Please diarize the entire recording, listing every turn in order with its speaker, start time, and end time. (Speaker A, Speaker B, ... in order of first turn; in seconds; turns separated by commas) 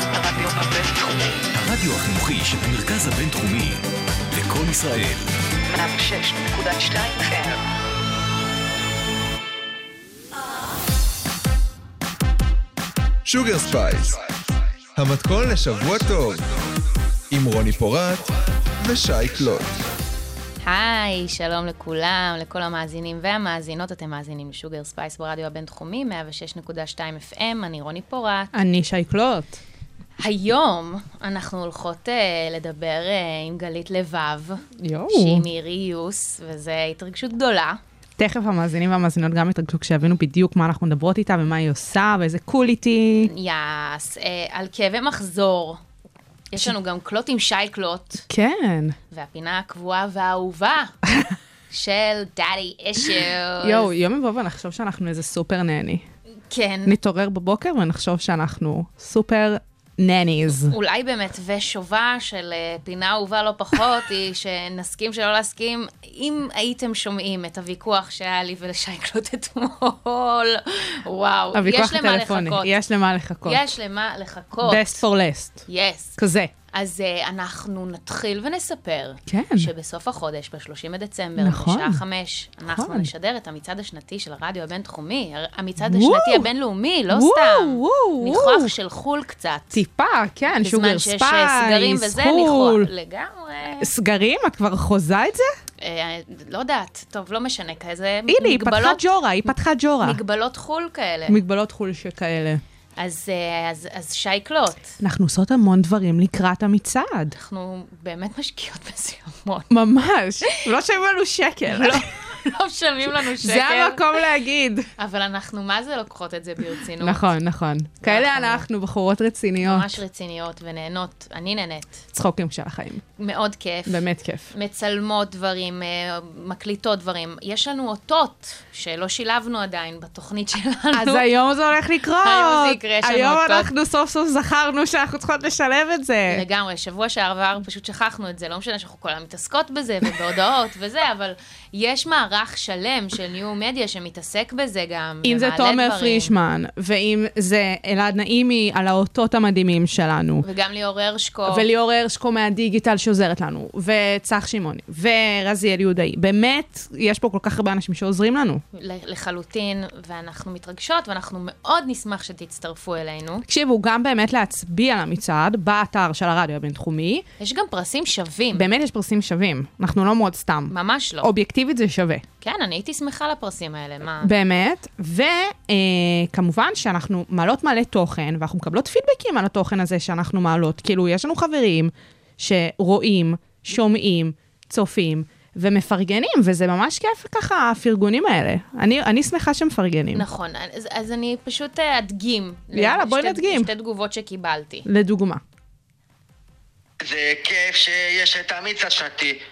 Speaker A: 0.1-1.4, Speaker B: 1.5-5.4, Speaker A: 5.6-7.6, Speaker C: 13.2-14.2, Speaker C: 14.9-16.4, Speaker C: 17.3-19.8, Speaker D: 20.6-28.5, Speaker E: 28.5-29.6, Speaker D: 30.2-37.8, Speaker E: 34.8-35.5, Speaker E: 38.2-43.3, Speaker D: 43.2-45.8, Speaker D: 46.5-48.2, Speaker E: 48.3-49.0, Speaker D: 49.1-50.9, Speaker D: 51.7-53.9, Speaker E: 53.6-56.0, Speaker D: 56.5-57.0, Speaker E: 56.9-60.7, Speaker D: 60.7-72.8, Speaker E: 71.5-73.8, Speaker D: 73.4-75.0, Speaker E: 74.6-76.5, Speaker D: 75.7-76.2, Speaker D: 76.7-89.8, Speaker E: 79.3-79.7, Speaker E: 81.4-82.0, Speaker E: 82.7-83.1, Speaker E: 85.8-86.5, Speaker E: 87.1-88.7, Speaker E: 89.7-92.9, Speaker D: 90.5-93.9, Speaker E: 93.8-95.5, Speaker D: 95.8-101.4, Speaker E: 98.3-100.2, Speaker E: 101.3-102.6, Speaker D: 103.0-104.9, Speaker E: 105.0-107.3, Speaker D: 107.3-109.7, Speaker E: 109.7-112.0, Speaker D: 111.7-114.1, Speaker E: 113.1-114.9, Speaker D: 115.0-117.2, Speaker E: 117.0-120.0, Speaker D: 118.0-118.6, Speaker D: 119.6-122.0, Speaker E: 122.1-123.0, Speaker D: 123.2-131.3, Speaker E: 123.9-124.5, Speaker E: 130.9-136.4, Speaker D: 132.2-133.7, Speaker D: 136.2-146.3, Speaker E: 145.2-150.4, Speaker D: 150.4-151.7, Speaker E: 151.5-158.6, Speaker D: 158.7-163.4, Speaker E: 163.4-167.2, Speaker D: 167.4-168.7, Speaker E: 168.5-172.2, Speaker D: 170.7-171.3, Speaker D: 172.4-174.3, Speaker E: 174.2-190.2, Speaker D: 190.1-194.9, Speaker E: 192.7-193.7, Speaker E: 194.8-195.4, Speaker F: 197.0-199.4